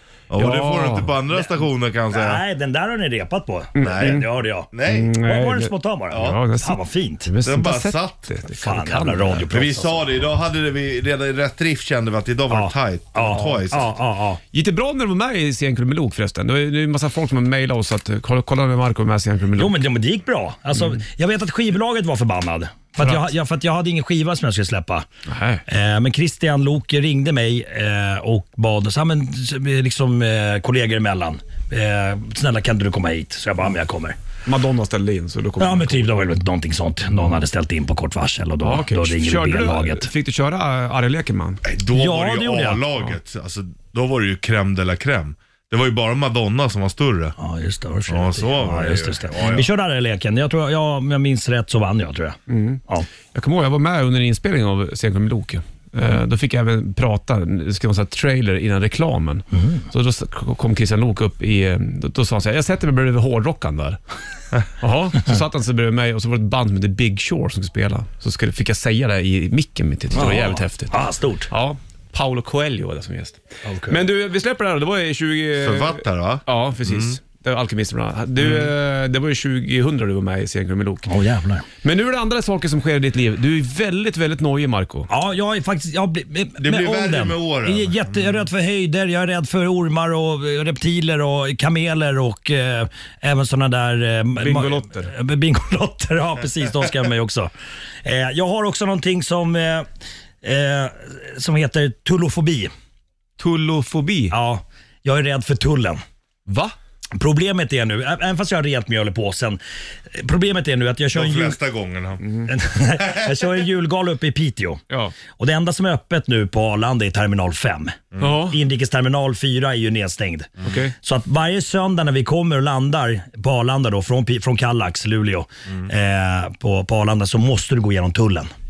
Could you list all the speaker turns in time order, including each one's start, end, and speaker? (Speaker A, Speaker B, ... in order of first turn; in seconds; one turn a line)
Speaker A: 0.3-2.4
Speaker B: 0.4-1.1
Speaker C: 1.3-1.6
Speaker C: 2.1-4.7
Speaker B: 3.7-4.3
Speaker A: 3.8-5.2
Speaker B: 4.8-9.5
Speaker C: 5.2-7.3
Speaker A: 6.1-6.4
Speaker A: 7.4-8.3
Speaker C: 8.5-10.1
Speaker A: 9.4-14.0
Speaker C: 12.5-14.4
Speaker B: 14.5-19.8
Speaker C: 19.6-25.0
Speaker B: 23.0-23.3
Speaker B: 25.3-25.6
Speaker C: 25.7-34.2
Speaker B: 34.5-36.1
Speaker C: 35.6-40.1
Speaker B: 38.6-41.6
Speaker A: 41.6-47.3
Speaker C: 41.9-42.8
Speaker C: 47.4-53.1
Speaker A: 48.1-49.7
Speaker B: 52.5-64.0
Speaker C: 59.5-59.8
Speaker B: 64.8-81.1
Speaker C: 70.1-71.5
Speaker C: 73.6-74.0
Speaker A: 75.6-77.2
Speaker A: 78.4-78.7
Speaker C: 81.1-81.7
Speaker B: 81.8-85.1
Speaker C: 85.1-97.5
Speaker A: 86.6-88.5
Speaker B: 94.3-95.1
Speaker C: 98.0-99.8
Speaker C: 100.4-102.7
Speaker B: 103.4-104.3
Speaker C: 104.3-106.0
Speaker B: 106.5-106.7
Speaker C: 107.2-111.6
Speaker A: 111.1-112.2
Speaker B: 112.2-112.5
Speaker C: 112.5-128.5
Speaker A: 113.0-113.5
Speaker B: 118.2-118.6
Speaker B: 120.6-120.9